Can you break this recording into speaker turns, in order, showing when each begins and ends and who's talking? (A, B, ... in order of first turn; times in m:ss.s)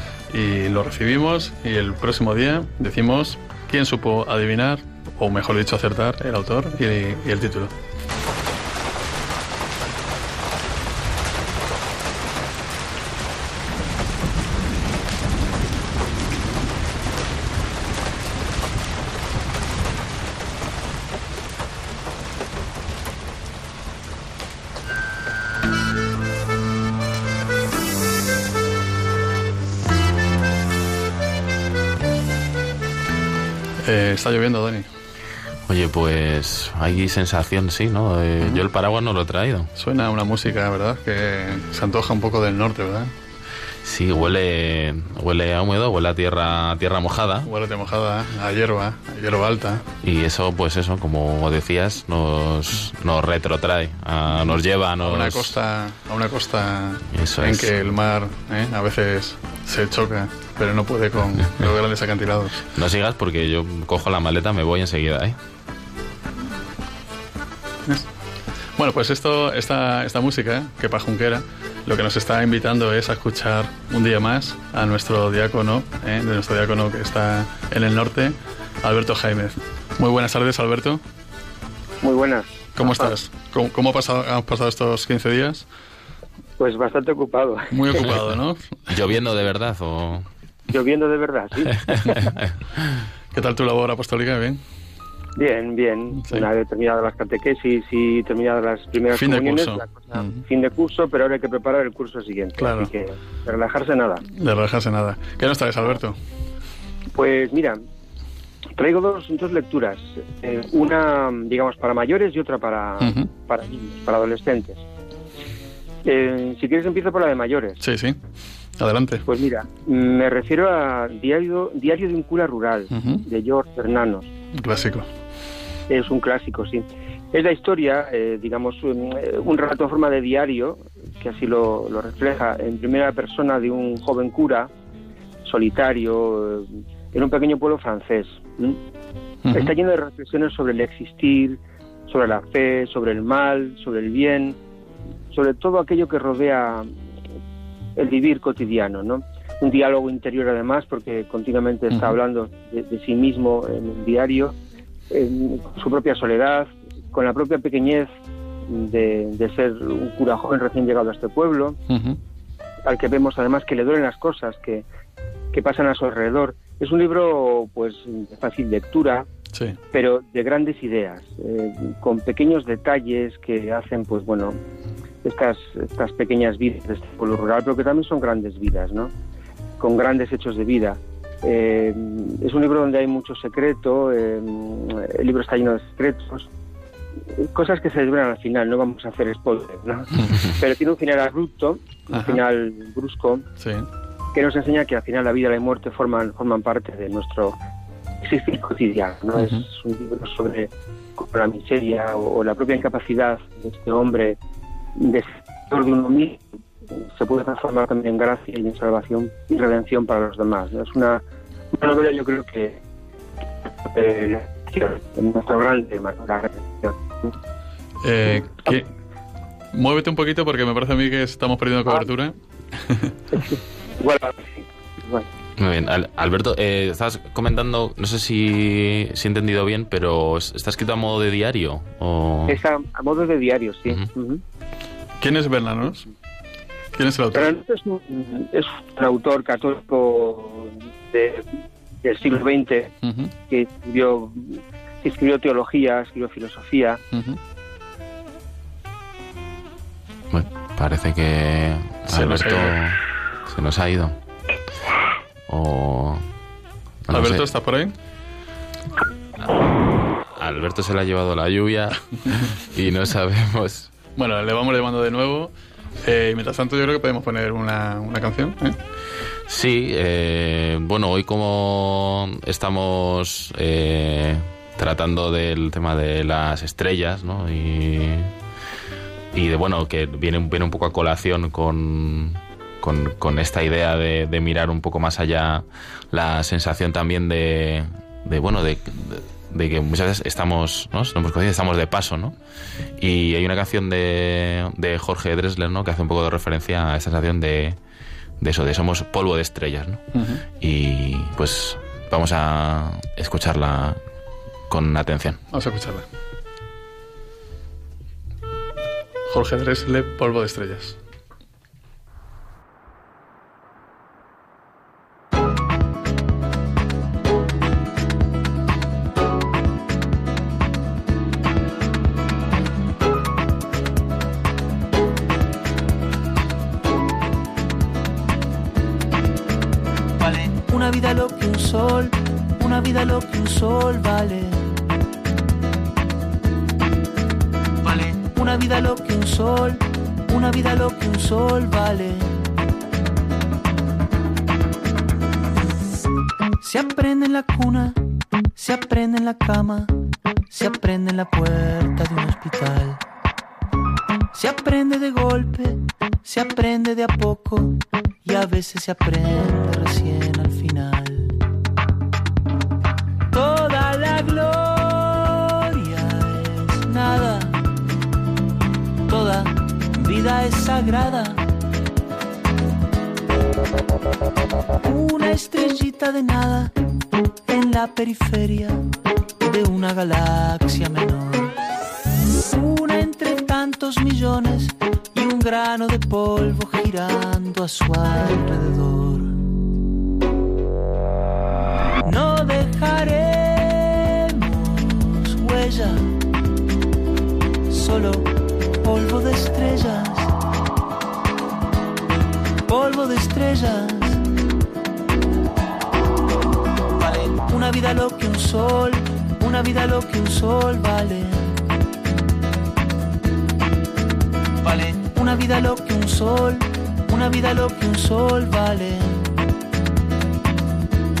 0:00.3-0:07.7 A
0:33.8-0:34.9 A
0:35.7-0:39.7 B
0:39.8-0:43.1 A
0:43.8-0:47.5 B
0:47.4-0:49.8 A
0:50.0-0:55.6 B
0:54.3-1:02.7 A
0:57.1-0:57.7 B
1:02.7-1:05.4 B
1:08.8-1:21.0 A
1:22.0-1:23.1 C
1:22.8-1:25.7 A
1:26.6-1:28.1 C
1:27.7-1:29.0 A
1:28.9-1:30.2 B
1:30.7-1:32.2 C
1:32.0-1:32.5 B
1:33.3-1:34.6 A
1:35.4-1:44.2 C
1:39.1-1:40.4 A
1:42.6-1:42.9 A
1:44.3-1:46.2 A
1:47.1-1:47.8 C
1:48.8-1:54.8 C
1:53.0-1:53.3 A
1:56.0-1:57.8 C
1:57.8-1:58.2 A
1:58.8-1:59.2 A
1:59.2-2:04.3 C
2:02.9-2:03.2 A
2:04.5-2:05.1 A
2:05.9-2:14.7 C
2:15.4-2:18.8 C
2:19.4-2:19.7 A
2:19.5-2:24.6 C
2:25.3-2:26.9 C
2:28.0-2:34.6 C
2:31.9-2:32.2 A
2:35.1-2:38.1 C
2:38.6-2:41.8 C
2:41.9-2:42.2 A
2:42.8-2:44.8 C
2:45.5-2:49.3 C
2:49.5-2:49.8 A
2:49.9-2:54.6 C
2:55.2-2:59.1 C
2:59.8-3:06.5 C
3:07.3-3:13.4 C
3:10.2-3:10.4 A
3:12.1-3:12.4 A
3:13.6-3:13.9 A
3:14.3-3:17.6 C
3:18.2-3:24.4 C
3:19.4-3:19.6 A
3:25.0-3:32.8 C
3:33.8-3:37.3 C
3:38.0-3:38.9 A
3:39.7-3:43.2 A
3:43.3-3:45.3 C
3:45.6-3:52.6 B
3:52.5-3:54.4 C
3:55.2-3:56.1 A
3:56.9-3:57.5 A
3:57.3-4:01.4 C
4:02.0-4:02.9 C
4:03.0-4:03.3 A
4:03.5-4:07.0 C
4:07.1-4:07.4 A
4:10.3-4:14.2 B
4:12.1-4:12.8 A
4:15.5-4:16.2 B
4:17.0-4:17.4 B
4:17.1-4:17.9 A
4:19.4-4:23.9 B
4:24.2-4:28.8 A
4:29.5-4:38.3 B
4:39.3-4:52.4 B
4:53.0-4:57.8 B
4:58.4-5:00.0 B
5:00.1-5:00.4 A
5:00.6-5:04.0 B
5:04.7-5:05.4 B
5:05.5-5:06.0 A
5:09.3-5:11.0 A
5:30.2-5:34.8 D
5:37.9-5:42.5 D
5:46.6-5:50.0 D
5:50.5-5:53.0 D
5:54.3-6:01.4 D
6:03.3-6:07.7 D
6:09.1-6:11.5 D
6:14.8-6:16.7 D
6:17.4-6:18.8 D
6:19.4-6:21.6 D
6:22.4-6:29.4 D
6:32.0-6:36.2 D
6:37.7-6:40.3 D
6:42.7-6:44.2 D
6:47.1-6:51.6 D
6:54.6-6:59.3 D